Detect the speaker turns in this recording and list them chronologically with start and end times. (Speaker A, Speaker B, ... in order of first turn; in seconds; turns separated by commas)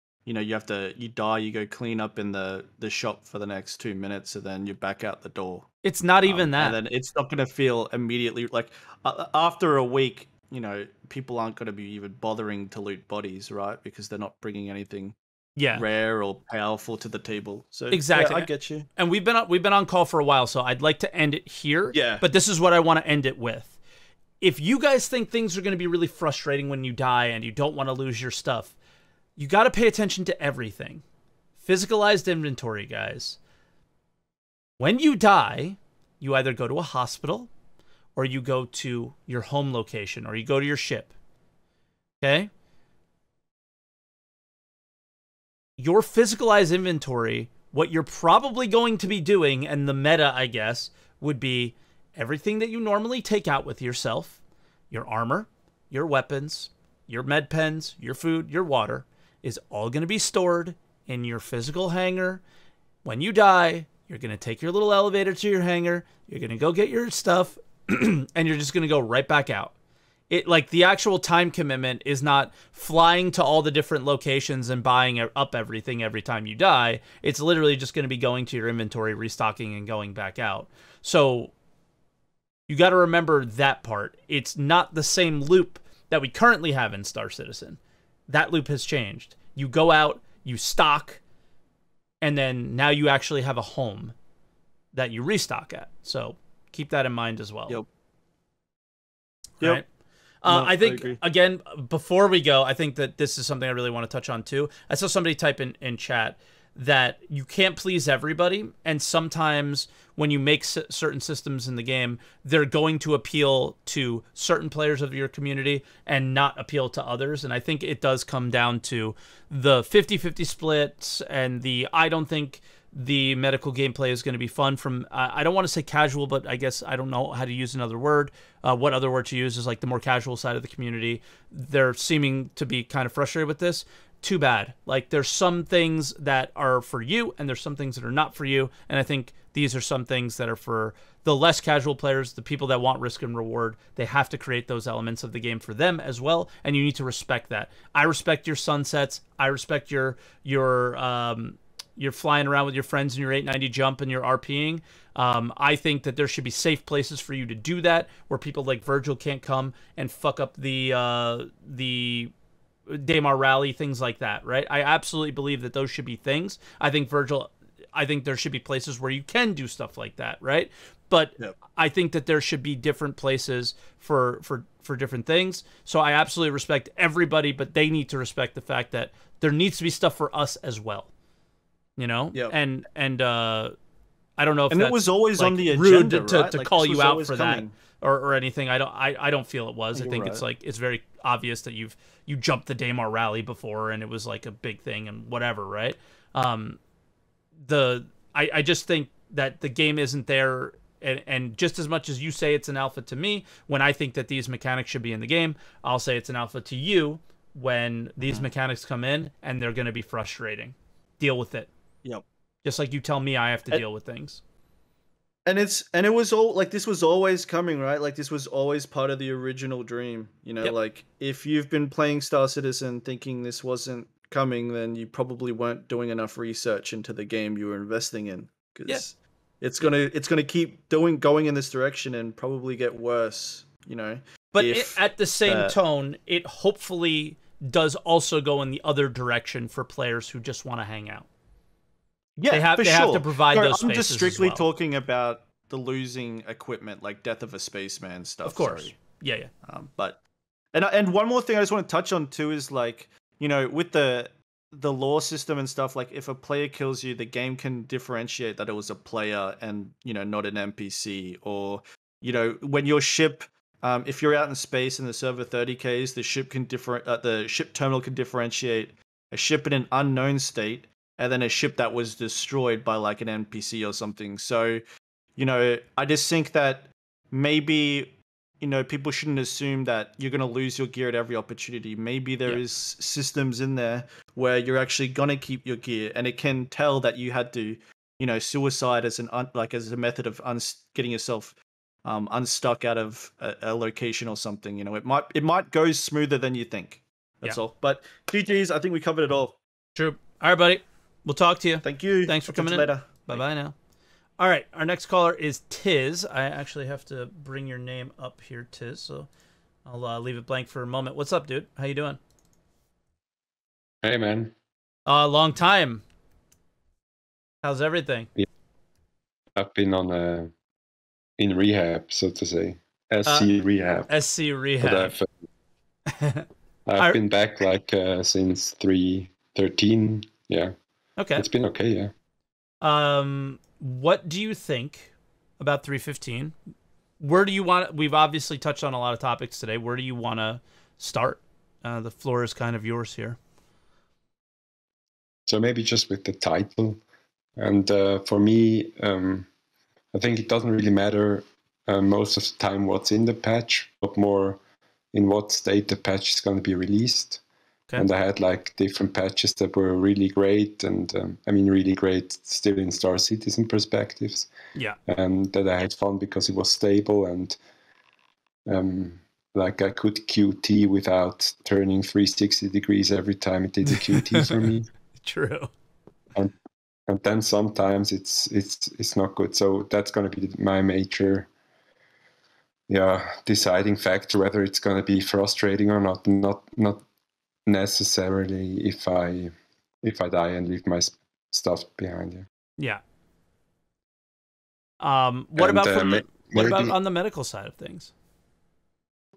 Speaker A: 0.2-5.7, Speaker B: 5.8-6.8, Speaker A: 6.2-15.2, Speaker B: 15.6-15.8, Speaker A: 15.7-18.9, Speaker B: 17.9-23.8, Speaker A: 21.9-22.2, Speaker B: 24.4-28.7, Speaker B: 29.4-31.0, Speaker B: 31.6-33.4, Speaker B: 34.8-37.5, Speaker B: 38.1-41.1, Speaker B: 42.2-42.5, Speaker B: 45.8-54.4, Speaker B: 54.9-62.4, Speaker B: 63.0-69.7, Speaker B: 70.3-81.5, Speaker B: 82.7-91.2, Speaker B: 92.2-94.1, Speaker B: 94.9-97.8, Speaker B: 100.4-162.3, Speaker A: 100.5-101.2, Speaker B: 162.9-181.1, Speaker B: 182.0-183.7, Speaker B: 184.4-196.8, Speaker A: 184.7-187.7, Speaker A: 189.9-190.4, Speaker B: 197.6-211.7, Speaker B: 212.6-214.4, Speaker A: 215.4-235.7, Speaker B: 234.5-241.3, Speaker A: 242.4-248.9, Speaker B: 242.5-244.7, Speaker B: 248.4-249.5, Speaker A: 249.6-250.2, Speaker A: 250.7-274.8, Speaker A: 275.4-299.6, Speaker B: 299.9-303.7, Speaker A: 301.8-303.4, Speaker B: 304.4-309.3, Speaker B: 309.8-312.2, Speaker C: 314.0-314.5, Speaker B: 315.1-316.0, Speaker B: 317.6-318.3, Speaker C: 319.6-320.5, Speaker C: 321.4-324.1, Speaker B: 324.1-325.1, Speaker C: 324.8-325.3, Speaker B: 326.1-326.4, Speaker C: 326.9-330.7, Speaker B: 331.2-331.5, Speaker C: 331.4-332.1, Speaker B: 332.8-336.5, Speaker B: 337.2-343.4, Speaker C: 345.5-347.0, Speaker C: 347.6-349.5, Speaker C: 350.1-354.6, Speaker C: 355.1-357.4, Speaker C: 357.9-364.5, Speaker C: 365.1-367.6, Speaker C: 368.6-374.9, Speaker B: 373.9-374.7, Speaker B: 375.2-375.7, Speaker C: 377.1-381.5, Speaker C: 382.9-387.0, Speaker C: 387.6-392.4, Speaker B: 395.0-398.1, Speaker C: 395.6-396.9